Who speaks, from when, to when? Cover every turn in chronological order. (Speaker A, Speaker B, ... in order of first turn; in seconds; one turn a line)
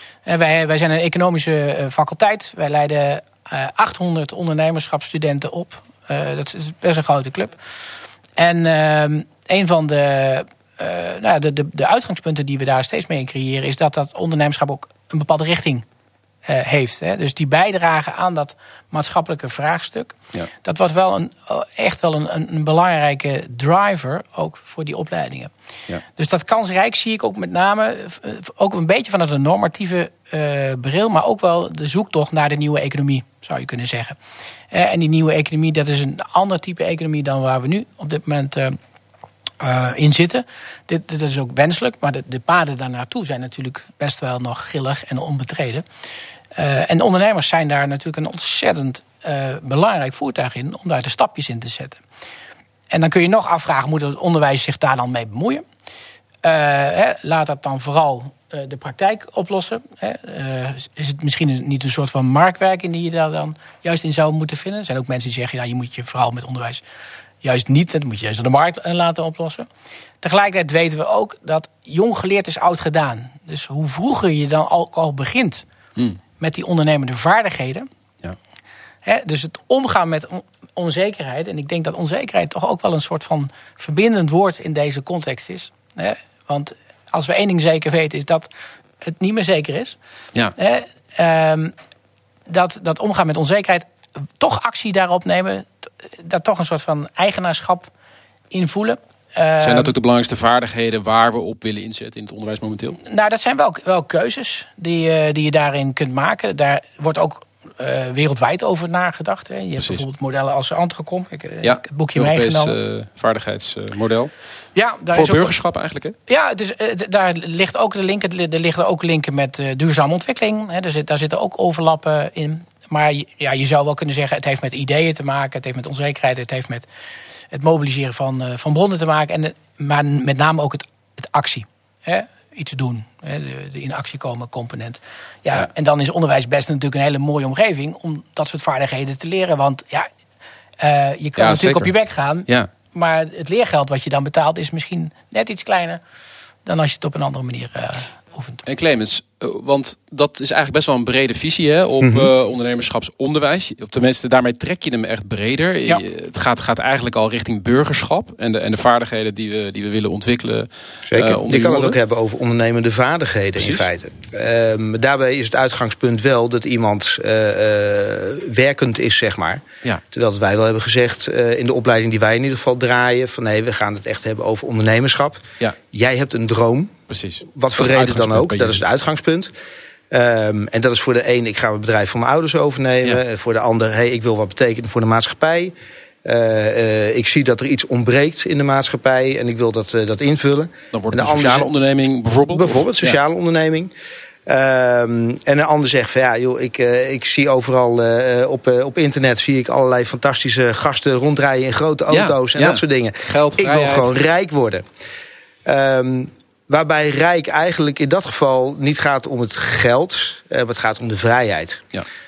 Speaker A: 0.2-7.6
Speaker A: 8.4-15.8
Speaker A: 16.4-25.5
Speaker A: 26.1-34.2
Speaker A: 34.7-38.8
Speaker A: 39.6-45.8
Speaker A: 46.5-52.0
Speaker A: 52.9-55.6
Speaker A: 56.4-66.8
Speaker A: 67.4-69.7
Speaker A: 70.2-75.6
Speaker A: 76.4-77.9
Speaker A: 79.0-88.5
Speaker A: 89.0-90.0
Speaker A: 90.6-91.7
Speaker A: 92.5-97.9
Speaker A: 98.5-99.9
Speaker B: 99.6-103.0
Speaker A: 103.0-112.7
Speaker B: 109.8-110.0
Speaker B: 111.6-114.3
Speaker A: 114.8-115.5
Speaker B: 115.1-116.2
Speaker A: 116.3-126.9
Speaker A: 127.5-140.1
Speaker A: 140.8-146.0
Speaker B: 141.4-141.9
Speaker A: 146.6-148.6
Speaker B: 148.7-162.0
Speaker C: 152.0-152.3
Speaker C: 161.1-176.9
Speaker B: 163.6-163.9
Speaker B: 177.1-178.8
Speaker C: 177.5-179.5
Speaker C: 180.1-185.7
Speaker C: 186.2-191.7
Speaker B: 190.9-193.2
Speaker C: 192.5-193.9
Speaker C: 194.5-204.8
Speaker B: 202.1-204.1
Speaker C: 205.7-211.8